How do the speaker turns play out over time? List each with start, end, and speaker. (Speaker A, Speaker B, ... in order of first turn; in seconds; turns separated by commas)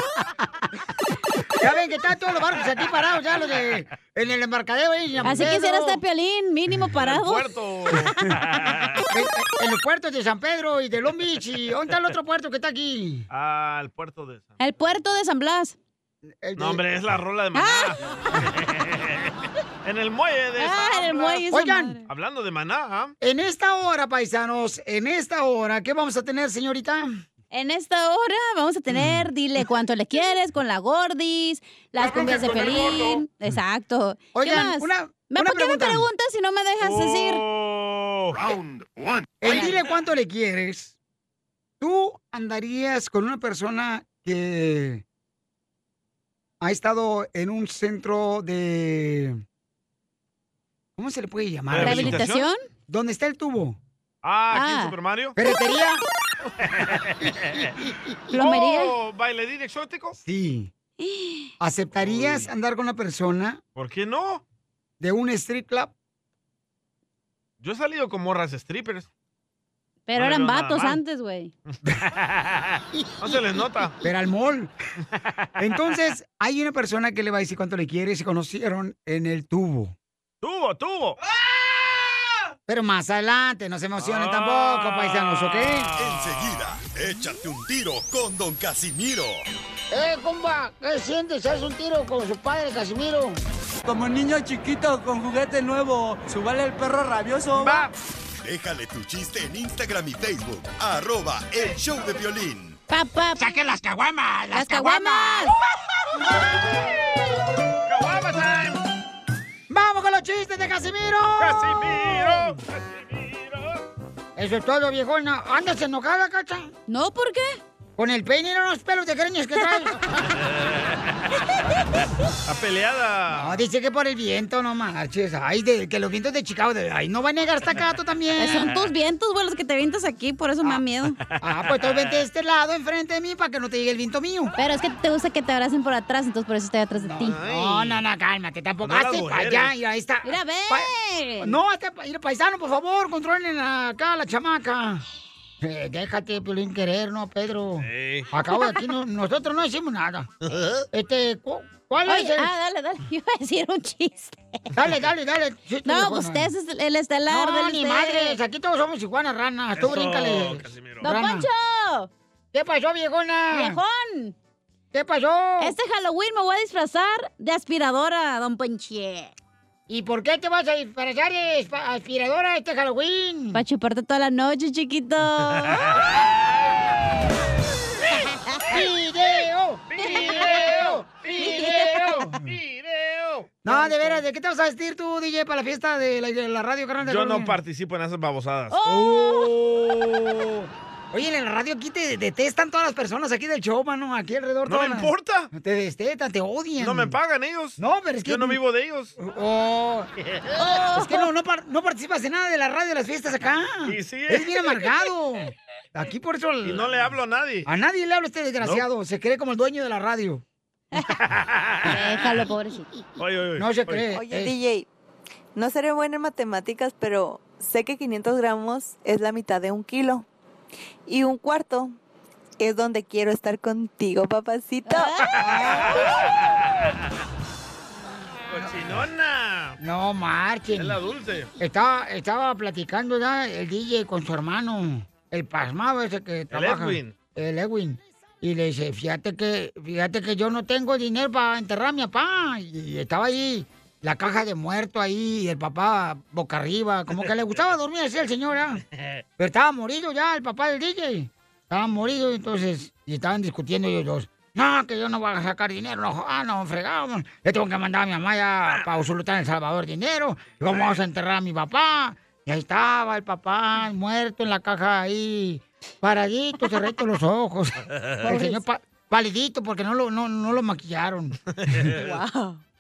Speaker A: 1.6-6.0, Speaker B: 5.2-7.4, Speaker C: 7.0-9.0, Speaker A: 9.1-13.3, Speaker C: 13.3-14.6, Speaker B: 14.6-15.8, Speaker A: 16.4-16.8, Speaker C: 16.6-19.3, Speaker B: 17.5-18.4, Speaker C: 19.9-21.4, Speaker B: 20.6-22.0, Speaker A: 21.5-22.0, Speaker C: 22.1-23.1, Speaker A: 23.2-27.2, Speaker B: 27.5-37.4, Speaker A: 28.9-29.2, Speaker A: 34.3-36.1, Speaker C: 36.8-38.4, Speaker A: 39.4-41.0, Speaker A: 41.8-45.0, Speaker A: 46.6-49.4, Speaker A: 51.0-52.3, Speaker C: 51.7-52.5, Speaker B: 51.8-52.6, Speaker A: 52.9-53.8, Speaker C: 54.2-55.4, Speaker B: 54.5-54.9, Speaker A: 55.4-56.0, Speaker C: 56.6-57.7, Speaker B: 58.3-58.9, Speaker C: 58.3-60.2, Speaker A: 60.2-60.7, Speaker B: 61.0-61.5, Speaker A: 61.6-63.6, Speaker C: 61.9-62.5, Speaker C: 63.8-64.4, Speaker A: 65.0-65.9, Speaker C: 67.6-69.1, Speaker B: 70.1-71.5, Speaker C: 70.2-71.0, Speaker C: 71.8-74.0, Speaker A: 74.0-74.7, Speaker A: 75.6-80.0, Speaker C: 80.4-81.2, Speaker A: 82.7-85.9, Speaker C: 84.0-86.7, Speaker D: 86.0-89.5, Speaker A: 89.9-93.4, Speaker E: 93.8-97.8, Speaker C: 97.6-97.9, Speaker D: 98.4-102.8, Speaker B: 102.9-103.5, Speaker B: 104.5-105.5, Speaker C: 107.9-108.8, Speaker A: 109.7-112.5, Speaker C: 111.4-113.8, Speaker A: 114.4-116.7, Speaker B: 116.9-117.6, Speaker A: 118.0-120.0, Speaker C: 122.5-123.6, Speaker A: 123.3-128.8, Speaker B: 128.4-131.2, Speaker A: 130.6-134.6, Speaker C: 131.5-132.2, Speaker B: 134.6-137.4, Speaker A: 137.0-145.0, Speaker C: 137.2-138.0, Speaker C: 138.8-139.7, Speaker B: 140.2-141.6, Speaker A: 145.6-150.3, Speaker C: 147.8-148.3, Speaker C: 150.4-150.8, Speaker A: 150.9-152.5, Speaker B: 152.1-154.6, Speaker A: 154.7-156.5, Speaker B: 155.8-158.4, Speaker A: 157.3-161.5, Speaker C: 159.8-161.1, Speaker B: 161.0-162.1, Speaker A: 162.5-163.8, Speaker B: 163.5-164.3, Speaker A: 164.9-165.8, Speaker B: 165.6-169.3, Speaker A: 169.9-173.6, Speaker B: 173.5-176.0, Speaker A: 178.7-182.5, Speaker C: 179.9-181.4, Speaker B: 180.0-180.4, Speaker B: 181.4-182.1, Speaker C: 182.0-184.2, Speaker A: 183.6-187.6, Speaker C: 187.0-188.8, Speaker B: 188.7-189.5, Speaker A: 188.8-197.2, Speaker C: 194.7-195.5, Speaker C: 196.8-199.2, Speaker A: 197.8-198.6, Speaker A: 199.2-200.1, Speaker C: 200.3-200.6, Speaker B: 200.6-201.3, Speaker A: 200.8-206.9, Speaker C: 203.8-205.0, Speaker C: 206.6-207.7, Speaker A: 207.7-210.4, Speaker C: 208.6-208.9, Speaker C: 211.3-212.1, Speaker B: 211.8-212.9, Speaker C: 213.2-214.1, Speaker A: 213.6-214.6, Speaker F: 214.1-214.9, Speaker F: 215.6-220.3, Speaker F: 221.1-222.0, Speaker F: 222.6-225.1, Speaker B: 224.9-225.3, Speaker C: 225.4-226.3, Speaker A: 225.4-226.1, Speaker C: 228.5-229.8, Speaker A: 229.8-231.0, Speaker C: 230.7-231.5, Speaker A: 231.6-248.8, Speaker C: 236.5-237.2, Speaker C: 247.1-247.6, Speaker A: 249.4-271.4, Speaker C: 260.7-261.0, Speaker B: 268.2-268.6, Speaker C: 271.6-272.2, Speaker B: 272.0-272.6